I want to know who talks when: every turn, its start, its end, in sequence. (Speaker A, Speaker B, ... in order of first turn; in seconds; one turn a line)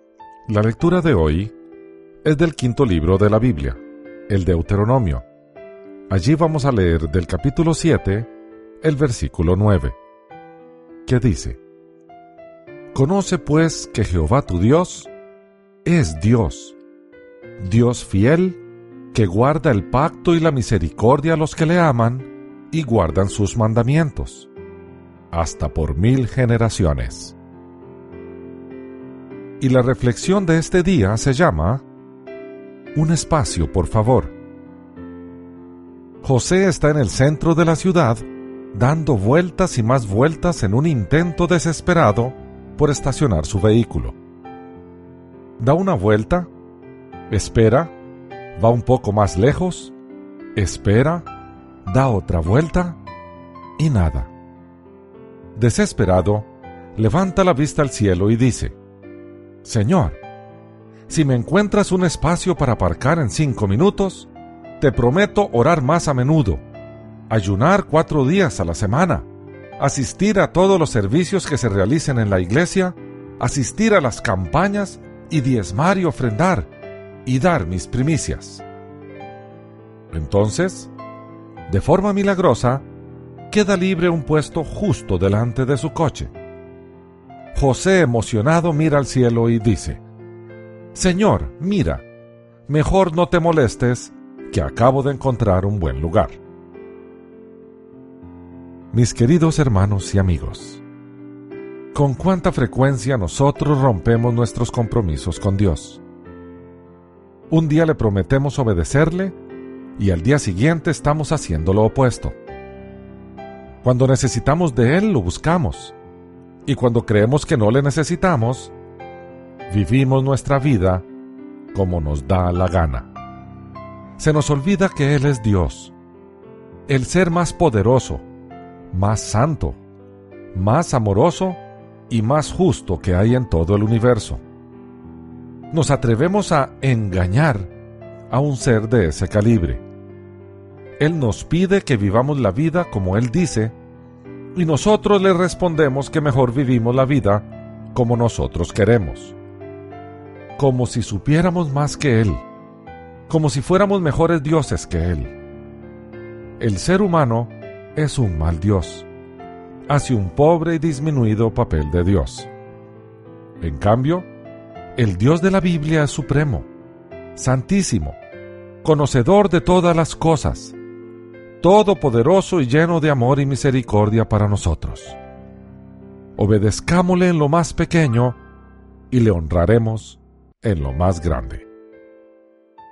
Speaker A: 0.5-1.5
Speaker A: 2.2-5.3
Speaker A: 6.1-8.3
Speaker A: 8.8-10.0
Speaker A: 11.1-11.6
Speaker A: 12.9-15.1
Speaker A: 15.8-16.8
Speaker A: 17.6-18.6
Speaker A: 19.1-24.5
Speaker A: 25.3-27.4
Speaker A: 29.6-31.8
Speaker A: 33.0-34.4
Speaker A: 36.2-44.2
Speaker A: 45.6-46.5
Speaker A: 47.3-47.9
Speaker A: 48.6-50.0
Speaker A: 50.6-51.3
Speaker A: 51.9-53.0
Speaker A: 53.8-54.3
Speaker A: 55.5-58.8
Speaker A: 59.6-60.2
Speaker A: 61.1-66.6
Speaker A: 67.3-76.7
Speaker A: 77.3-78.6
Speaker A: 80.1-80.9
Speaker A: 81.7-82.9
Speaker A: 83.5-86.3
Speaker A: 87.5-90.0
Speaker A: 90.9-92.1
Speaker A: 92.7-96.4
Speaker A: 98.9-100.8
Speaker A: 101.9-106.0
Speaker A: 107.5-109.4
Speaker A: 110.0-112.3
Speaker A: 113.8-116.0
Speaker A: 116.7-118.7
Speaker A: 119.7-121.1
Speaker A: 121.7-123.1
Speaker A: 124.2-125.9
Speaker A: 126.9-128.3
Speaker A: 128.9-129.8
Speaker A: 130.5-134.4
Speaker A: 135.7-137.7
Speaker A: 138.3-139.8
Speaker A: 141.0-143.8
Speaker A: 144.6-149.4
Speaker A: 150.6-152.4
Speaker A: 153.3-155.3
Speaker A: 156.6-159.1
Speaker A: 159.9-162.5
Speaker A: 163.6-164.3
Speaker A: 165.0-166.7
Speaker A: 167.4-168.2
Speaker A: 168.8-170.8
Speaker A: 171.6-175.2
Speaker A: 176.4-178.4
Speaker A: 179.1-181.7